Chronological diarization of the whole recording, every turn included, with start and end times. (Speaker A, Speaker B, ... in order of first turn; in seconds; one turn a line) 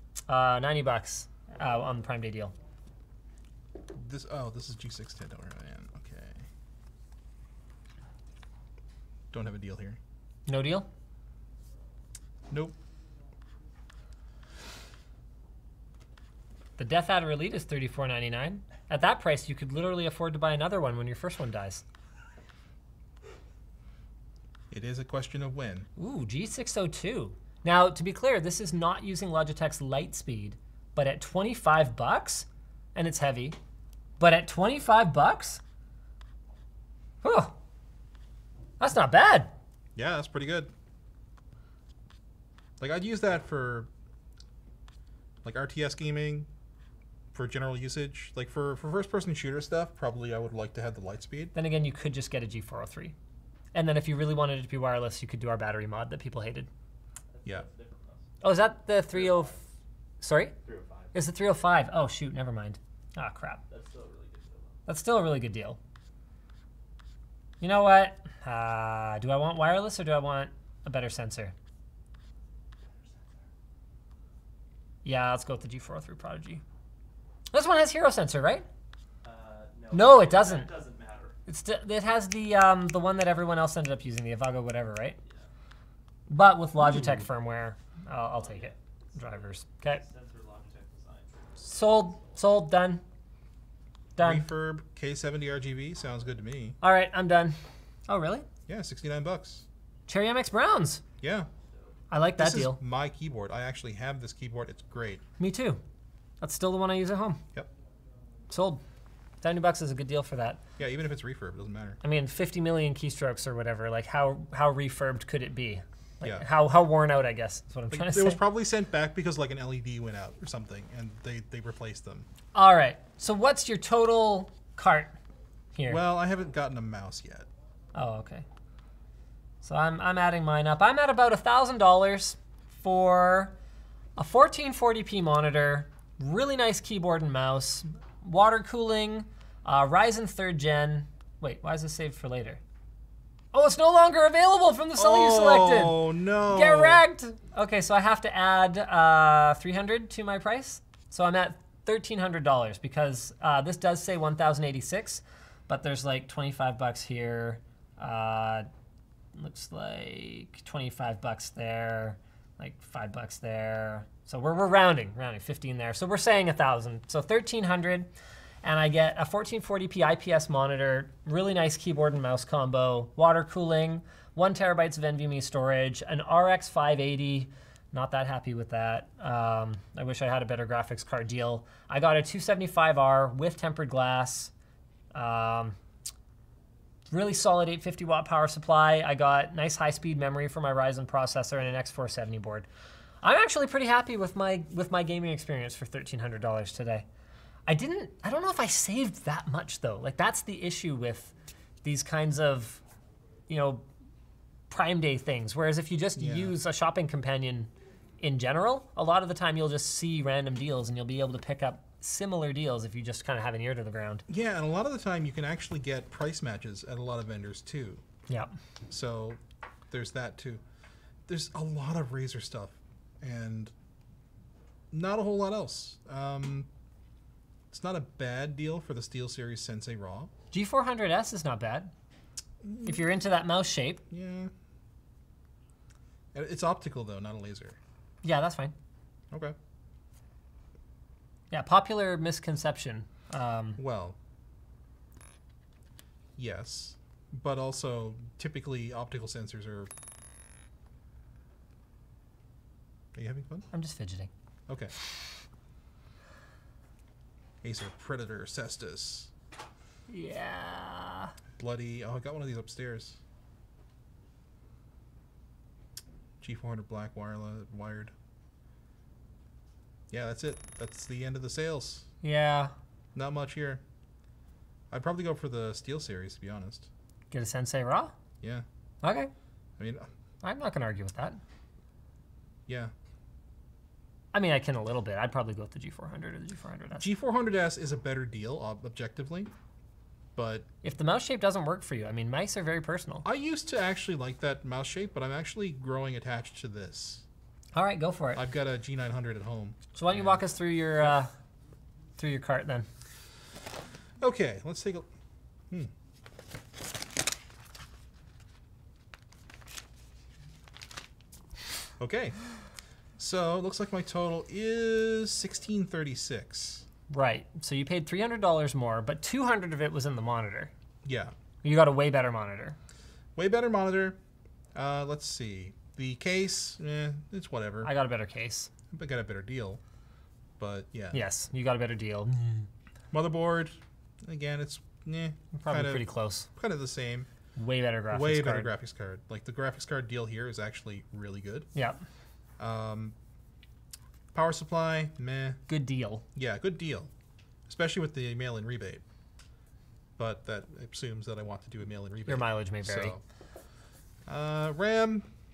Speaker A: 0.3-2.5
Speaker B: 3.9-6.5
Speaker B: 9.3-10.0
Speaker A: 10.5-10.9
Speaker B: 12.5-12.8
Speaker A: 16.8-21.8
Speaker B: 24.7-25.9
Speaker A: 26.0-33.6
Speaker A: 34.2-35.6
Speaker A: 37.2-37.6
Speaker A: 38.8-39.5
Speaker B: 40.0-40.7
Speaker B: 42.8-43.9
Speaker B: 45.4-46.5
Speaker B: 47.3-51.5
Speaker A: 51.5-53.1
Speaker A: 53.7-56.7
Speaker C: 57.3-58.4
Speaker A: 58.4-59.6
Speaker C: 59.1-59.5
Speaker A: 60.2-60.5
Speaker C: 60.6-61.1
Speaker A: 61.1-63.6
Speaker C: 63.7-64.9
Speaker A: 64.9-65.8
Speaker A: 67.6-71.5
Speaker C: 73.0-73.4
Speaker A: 75.0-76.6
Speaker A: 77.5-78.7
Speaker C: 79.2-81.4
Speaker A: 79.9-80.7
Speaker A: 81.5-85.2
Speaker A: 86.3-90.0
Speaker C: 88.3-92.3
Speaker A: 91.6-93.0
Speaker A: 94.2-94.5
Speaker B: 94.2-96.8
Speaker A: 96.8-98.5
Speaker B: 98.7-99.7
Speaker A: 100.1-101.0
Speaker B: 101.2-101.5
Speaker A: 102.1-102.8
Speaker B: 102.4-105.2
Speaker A: 105.4-105.8
Speaker A: 106.4-107.4
Speaker A: 108.5-108.8
Speaker A: 109.4-110.6
Speaker B: 110.8-112.0
Speaker A: 112.0-118.4
Speaker B: 116.2-116.5
Speaker B: 117.9-122.3
Speaker A: 122.5-125.2
Speaker A: 125.8-126.0
Speaker B: 125.9-127.5
Speaker A: 128.0-128.5
Speaker A: 129.6-133.5
Speaker A: 134.2-142.6
Speaker A: 143.5-158.7
Speaker B: 145.0-147.0
Speaker A: 159.3-168.1
Speaker A: 168.6-184.5
Speaker A: 185.1-185.8
Speaker A: 187.1-192.7
Speaker A: 193.2-197.1
Speaker A: 197.7-201.3
Speaker A: 201.8-202.8
Speaker A: 203.5-203.9
Speaker A: 204.7-214.2
Speaker B: 206.2-206.5
Speaker B: 214.3-218.0
Speaker B: 218.9-219.4
Speaker B: 219.9-220.6
Speaker B: 221.3-223.7
Speaker B: 224.9-226.7
Speaker B: 227.7-230.3
Speaker A: 230.5-231.9
Speaker B: 232.6-233.1
Speaker A: 232.8-234.0
Speaker B: 234.1-234.5
Speaker B: 236.3-237.8
Speaker A: 238.2-238.7
Speaker B: 239.3-239.6
Speaker A: 241.5-243.8
Speaker B: 243.8-244.2
Speaker B: 246.4-249.9
Speaker B: 253.1-253.7
Speaker A: 253.7-254.3
Speaker B: 254.7-254.9
Speaker B: 257.6-259.3
Speaker A: 260.1-261.3
Speaker B: 261.6-263.2
Speaker B: 266.4-268.1
Speaker B: 270.1-272.1
Speaker A: 272.2-272.7
Speaker B: 273.1-273.8
Speaker B: 274.9-276.9
Speaker A: 277.3-278.1
Speaker A: 279.0-279.3
Speaker B: 279.8-280.1
Speaker A: 280.4-281.4
Speaker B: 282.7-282.9
Speaker A: 284.3-287.0
Speaker B: 287.0-289.5
Speaker B: 290.4-290.7
Speaker A: 290.8-293.3
Speaker B: 293.2-297.2
Speaker A: 297.8-298.4
Speaker B: 298.3-299.8
Speaker A: 299.9-301.3
Speaker A: 302.2-302.9
Speaker B: 304.2-305.1
Speaker B: 312.0-312.4
Speaker B: 313.2-316.9
Speaker A: 317.1-320.7
Speaker B: 321.1-321.3
Speaker A: 321.6-322.8
Speaker B: 323.4-324.2
Speaker B: 324.8-327.9
Speaker A: 327.8-328.7
Speaker B: 328.9-329.8
Speaker B: 330.6-331.2
Speaker A: 331.1-332.7
Speaker B: 333.1-337.3
Speaker A: 335.5-336.5
Speaker A: 337.6-338.7
Speaker B: 338.1-341.7
Speaker A: 341.8-342.0
Speaker B: 342.6-343.1
Speaker B: 344.3-345.6
Speaker A: 345.7-346.2
Speaker B: 346.4-347.1
Speaker B: 347.7-349.0
Speaker B: 350.2-353.2
Speaker A: 352.3-353.1
Speaker B: 354.3-355.3